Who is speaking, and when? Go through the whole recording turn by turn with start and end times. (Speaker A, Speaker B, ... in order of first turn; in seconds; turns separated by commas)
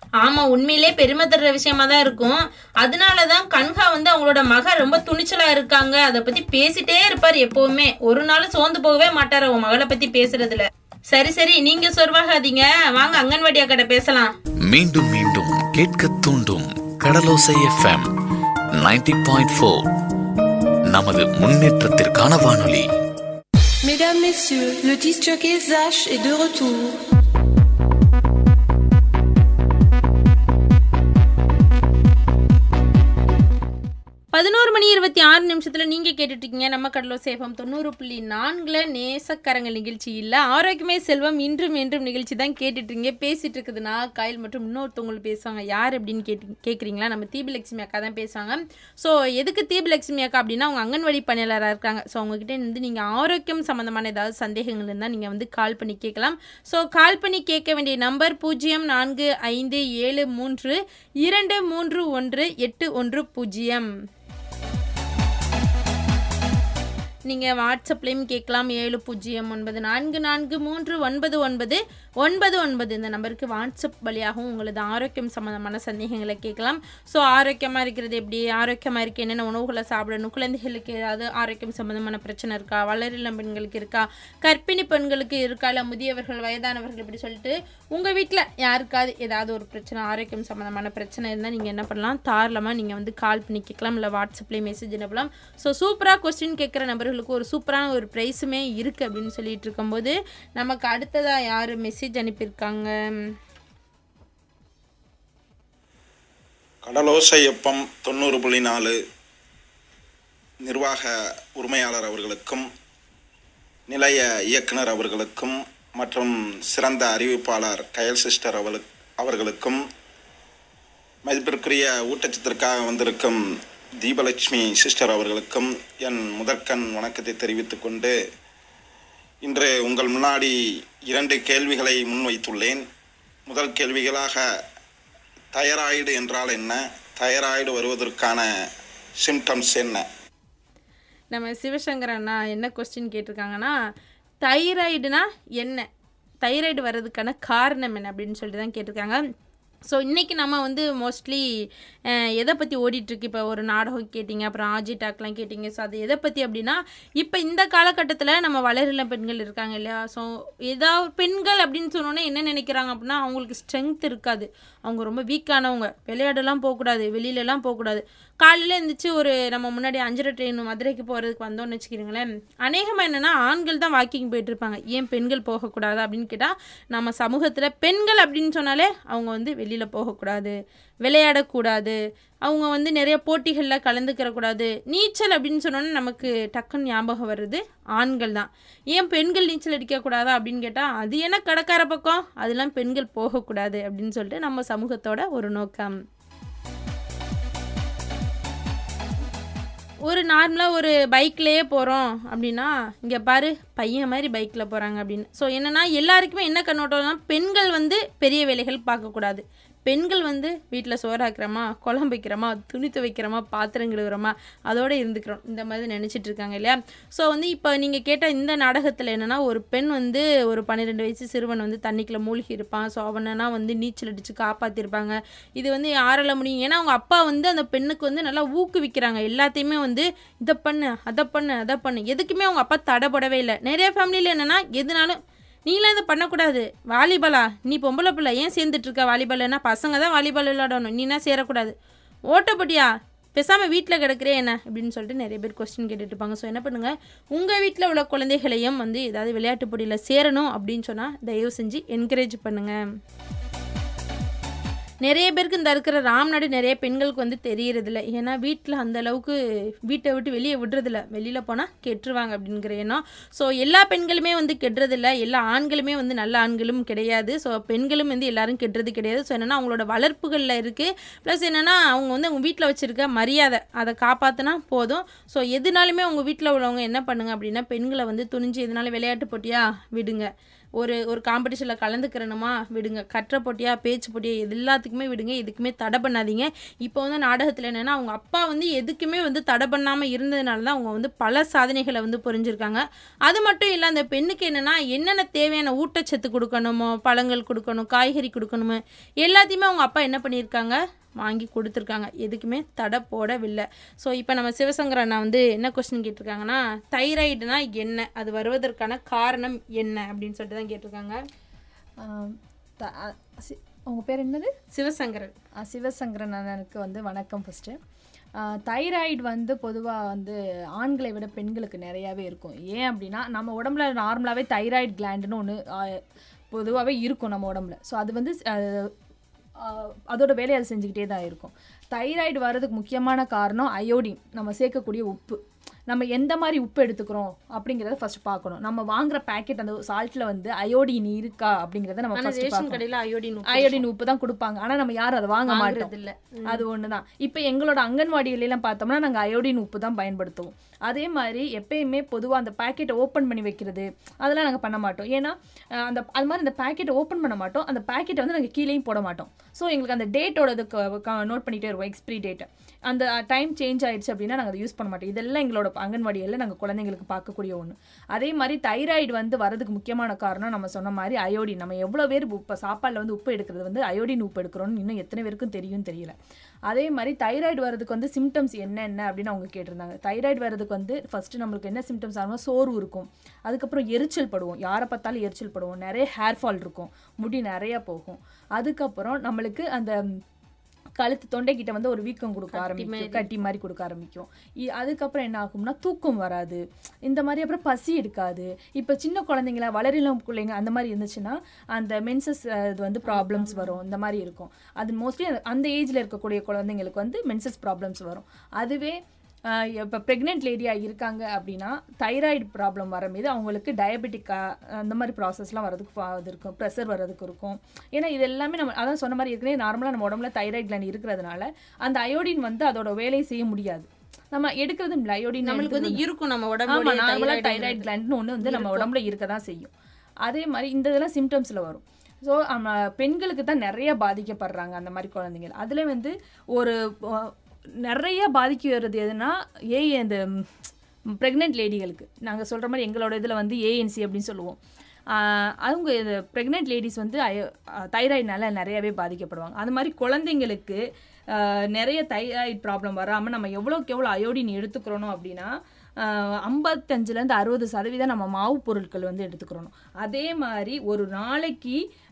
Speaker A: 0.2-14.3, Speaker B: 14.7-18.1, Speaker B: 18.8-19.9, Speaker B: 20.9-22.9, Speaker C: 23.9-26.8, Speaker A: 34.3-63.9, Speaker A: 67.3-103.3, Speaker D: 106.9-109.0, Speaker D: 110.7-112.7, Speaker D: 113.9-119.8, Speaker D: 121.3-123.4, Speaker D: 124.0-128.1, Speaker D: 129.4-130.5, Speaker D: 131.1-132.8, Speaker D: 133.5-134.4, Speaker D: 135.5-138.5, Speaker D: 139.2-140.1, Speaker A: 141.3-143.8, Speaker A: 144.4-145.9, Speaker A: 146.4-149.2, Speaker A: 149.9-151.4, Speaker A: 152.1-196.0, Speaker A: 200.1-241.7, Speaker A: 242.3-252.8, Speaker A: 255.0-311.2, Speaker E: 312.0-314.5, Speaker A: 314.7-315.3, Speaker E: 315.6-317.8, Speaker E: 318.4-326.0, Speaker E: 326.5-328.9, Speaker E: 329.6-342.8, Speaker A: 342.2-343.8, Speaker E: 343.5-345.9, Speaker A: 345.5-346.6, Speaker E: 346.5-376.2, Speaker E: 376.7-389.9, Speaker E: 391.0-409.0, Speaker A: 392.5-393.3, Speaker A: 403.1-403.8, Speaker E: 409.5-426.0, Speaker A: 425.5-427.9, Speaker E: 426.7-429.7, Speaker A: 428.4-428.9, Speaker E: 430.3-437.3, Speaker E: 437.9-440.7, Speaker E: 441.2-444.6, Speaker E: 445.1-450.8, Speaker E: 451.4-455.5, Speaker E: 456.0-461.8